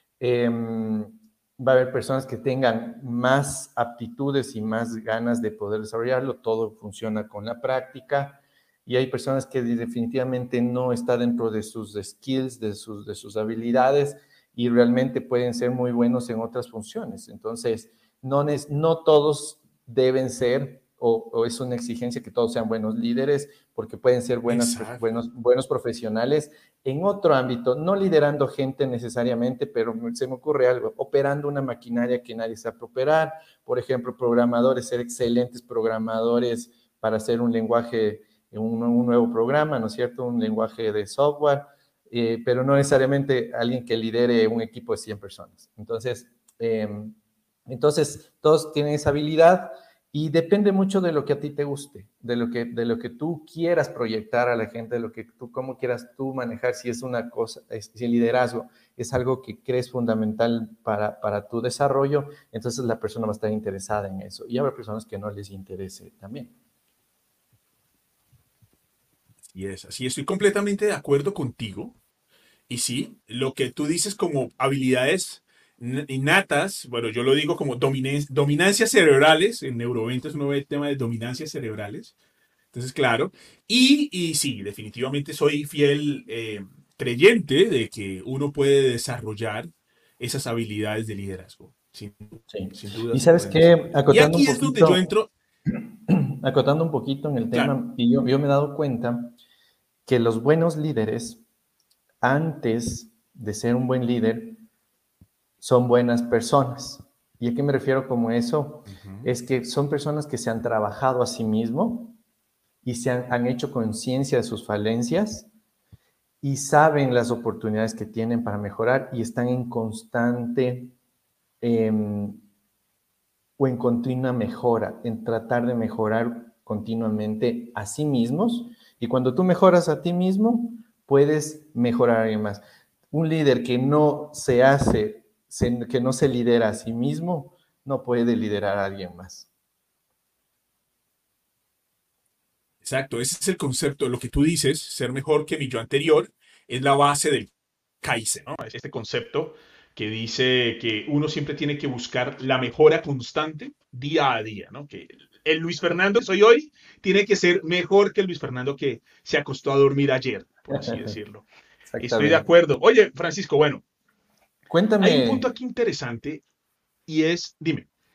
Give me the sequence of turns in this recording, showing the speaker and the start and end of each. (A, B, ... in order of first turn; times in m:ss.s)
0:00.2-0:47.1 A
0:24.5-0:25.2 B
0:47.7-1:06.5 A
1:09.5-1:12.0 B
1:12.7-1:22.1 B
1:22.7-1:35.3 B
1:32.5-1:35.1 A
1:35.7-1:39.4 A
1:40.0-1:41.4 A
1:42.2-1:44.6 A
1:45.6-1:52.2 A
1:48.9-1:49.3 B
1:52.8-1:55.5 A
1:56.4-2:00.9 A
2:01.6-2:02.4 A
2:03.6-2:19.5 A
2:22.8-2:41.5 B
2:40.7-2:41.1 A
2:41.9-2:42.4 A
2:42.0-2:43.8 B
2:44.7-2:45.4 A
2:45.0-2:46.4 B
2:47.1-2:47.9 B